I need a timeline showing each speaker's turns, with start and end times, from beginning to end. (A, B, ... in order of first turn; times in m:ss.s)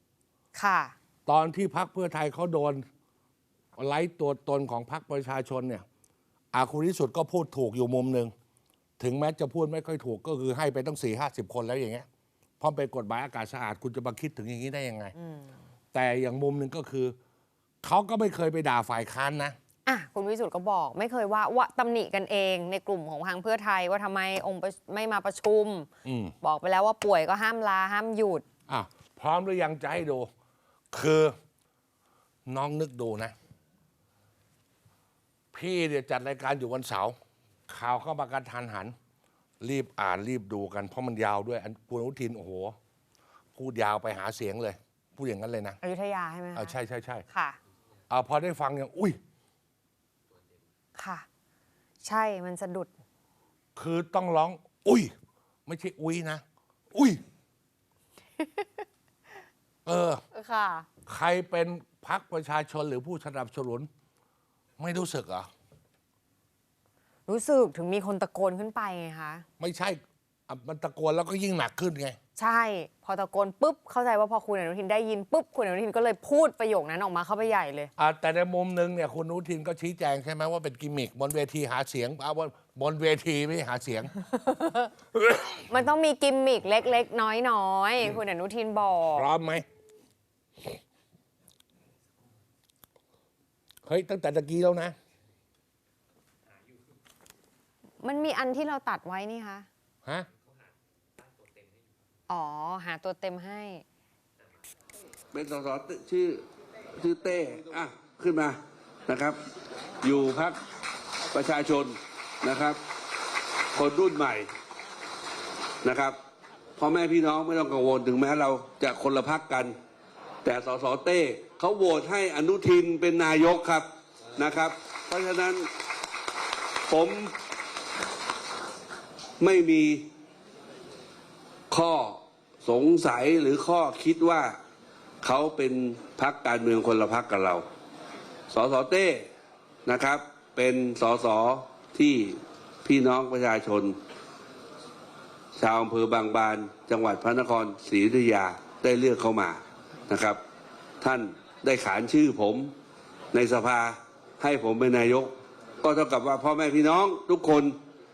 0:00.5-0:00.9 A
0:01.2-0:02.8 B
0:03.8-0:05.8 B
0:06.5-0:08.3 B
0:09.0-0:12.0 B
0:12.6-0:15.1 B
0:15.2-0:15.6 A
0:15.9-0:17.2 B
0:17.8-0:19.6 B
0:19.8-0:25.9 A
0:26.0-0:26.3 B
0:26.4-0:28.4 A
0:28.7-0:30.3 B
0:30.9-0:31.3 B
0:32.4-0:33.3 B
0:35.5-0:37.2 B
0:37.7-0:38.9 B
0:39.6-0:42.8 B
0:43.5-0:45.8 B
0:45.8-0:46.7 A
0:46.5-0:47.2 B
0:47.3-0:47.6 A
0:48.1-0:49.2 B
0:51.0-0:51.2 A
0:52.0-0:52.9 A
0:53.8-0:55.1 B
0:55.7-0:57.2 B
0:58.4-0:58.8 A
0:59.8-1:00.2 B
1:00.3-1:00.9 A
1:01.0-1:03.9 B
1:04.8-1:05.5 B
1:07.3-1:09.4 A
1:09.6-1:12.2 B
1:12.4-1:17.9 A
1:18.0-1:24.1 B
1:24.3-1:24.9 A
1:25.2-1:25.6 B
1:25.7-1:29.3 A
1:29.1-1:29.6 B
1:33.8-1:35.0 B
1:38.0-1:39.7 A
1:42.3-1:43.8 A
1:45.3-1:49.4 C
1:50.0-1:50.6 C
1:51.3-1:52.8 C
1:53.7-1:54.5 C
1:55.8-1:56.2 C
1:56.8-1:59.8 C
2:00.4-2:05.7 C
2:06.9-2:07.4 C
2:09.4-2:10.1 C
2:11.7-2:14.6 C
2:15.2-2:17.6 C
2:18.5-2:19.3 C
2:19.8-2:24.0 C
2:25.5-2:30.4 C
2:31.0-2:32.7 C
2:33.3-2:37.8 C